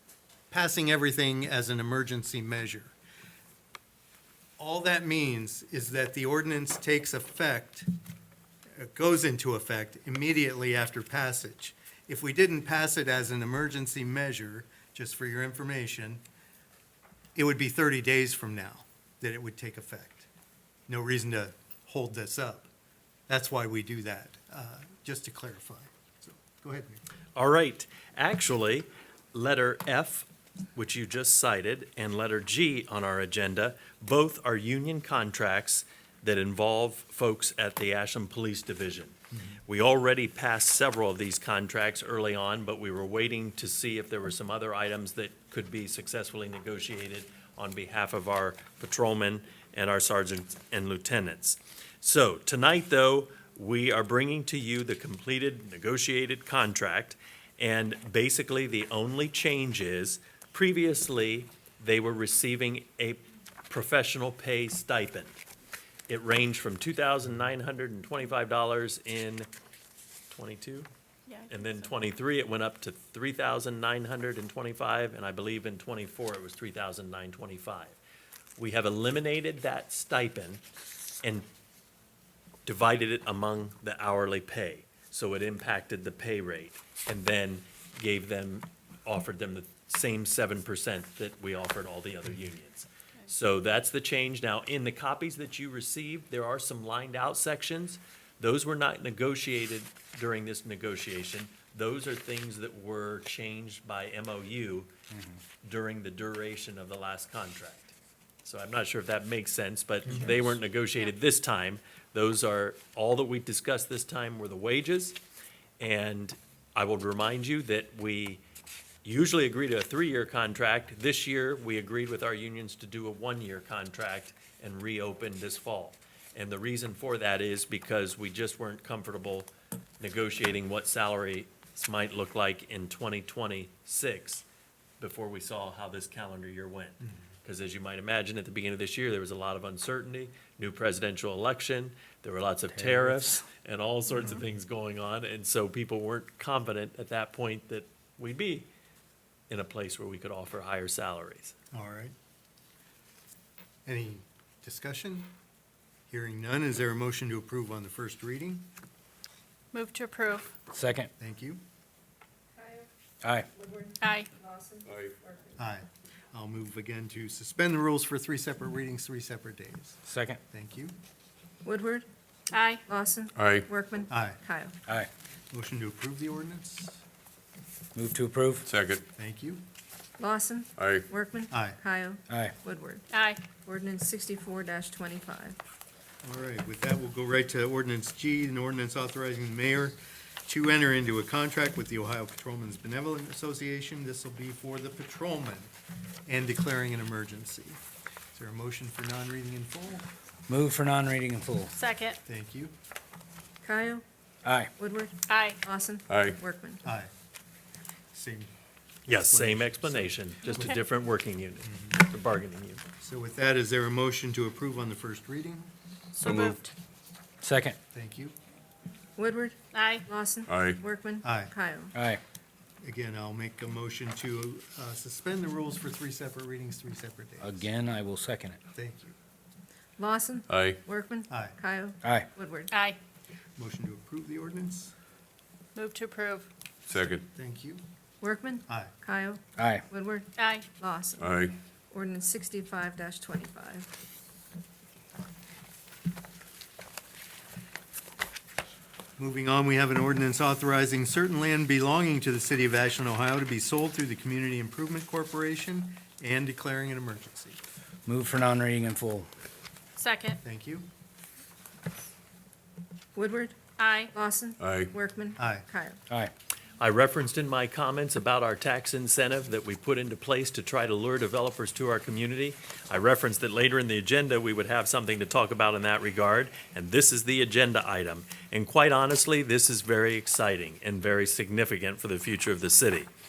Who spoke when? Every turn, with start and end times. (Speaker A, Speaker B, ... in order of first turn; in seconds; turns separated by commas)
Speaker A: 0.5-2.9, Speaker A: 4.6-7.9, Speaker A: 8.8-16.2, Speaker A: 17.4-20.3, Speaker A: 20.9-22.7, Speaker A: 23.3-27.0, Speaker B: 27.4-65.4, Speaker B: 66.1-69.5, Speaker B: 70.3-70.9, Speaker C: 71.3-71.9, Speaker B: 71.5-78.0, Speaker B: 78.6-80.6, Speaker B: 82.7-104.9, Speaker B: 105.6-115.2, Speaker A: 110.1-110.4, Speaker B: 115.8-118.4, Speaker B: 119.0-134.4, Speaker B: 135.0-148.7, Speaker D: 142.8-143.3, Speaker B: 149.5-151.6, Speaker A: 151.7-152.1, Speaker A: 153.9-155.3, Speaker A: 156.1-158.7, Speaker C: 159.7-160.5, Speaker D: 160.7-161.1, Speaker A: 161.2-161.6, Speaker E: 162.6-162.9, Speaker E: 163.6-165.5, Speaker C: 164.0-164.3, Speaker F: 164.9-165.1, Speaker A: 165.6-170.0, Speaker D: 170.1-170.4, Speaker A: 170.5-170.9, Speaker E: 171.6-172.1, Speaker C: 172.5-172.8, Speaker E: 172.9-174.8, Speaker F: 173.4-173.7, Speaker A: 174.1-174.4, Speaker A: 175.5-177.0, Speaker D: 177.9-178.7, Speaker F: 178.7-179.0, Speaker A: 179.2-179.6, Speaker E: 180.2-185.6, Speaker F: 180.8-181.1, Speaker A: 181.5-181.8, Speaker D: 182.3-182.6, Speaker C: 183.1-183.4, Speaker A: 186.2-195.7, Speaker A: 196.3-197.8, Speaker A: 198.3-200.1, Speaker D: 200.5-201.7, Speaker C: 201.7-202.2, Speaker A: 202.3-202.7, Speaker E: 203.6-204.0, Speaker D: 204.4-204.7, Speaker E: 204.8-206.8, Speaker C: 205.3-205.6, Speaker F: 206.1-206.4, Speaker A: 206.8-207.1, Speaker A: 208.1-208.5, Speaker A: 209.1-210.7, Speaker B: 209.1-212.8, Speaker C: 210.5-210.8, Speaker A: 211.7-212.0, Speaker A: 213.0-215.7, Speaker C: 216.2-216.7, Speaker F: 216.2-216.6, Speaker D: 217.4-217.8, Speaker A: 217.9-218.3, Speaker E: 219.2-221.9, Speaker C: 219.7-220.1, Speaker F: 220.5-220.8, Speaker A: 221.2-221.5, Speaker D: 221.9-222.2, Speaker A: 222.8-227.7, Speaker D: 227.4-228.6, Speaker A: 228.7-229.2, Speaker E: 230.0-232.8, Speaker F: 230.5-230.8, Speaker A: 231.3-231.6, Speaker D: 232.0-232.3, Speaker C: 232.7-233.0, Speaker A: 233.6-234.9, Speaker C: 235.8-236.5, Speaker F: 236.9-237.2, Speaker A: 237.2-237.8, Speaker E: 238.2-241.2, Speaker A: 238.7-238.9, Speaker D: 239.6-239.8, Speaker C: 240.4-240.7, Speaker F: 241.2-241.6, Speaker E: 241.9-243.9, Speaker A: 249.2-257.6, Speaker D: 258.1-259.3, Speaker C: 260.0-260.4, Speaker A: 260.4-260.9, Speaker E: 263.1-263.6, Speaker C: 263.8-264.1, Speaker E: 264.1-266.0, Speaker F: 264.6-264.9, Speaker A: 265.4-265.7, Speaker B: 266.8-283.1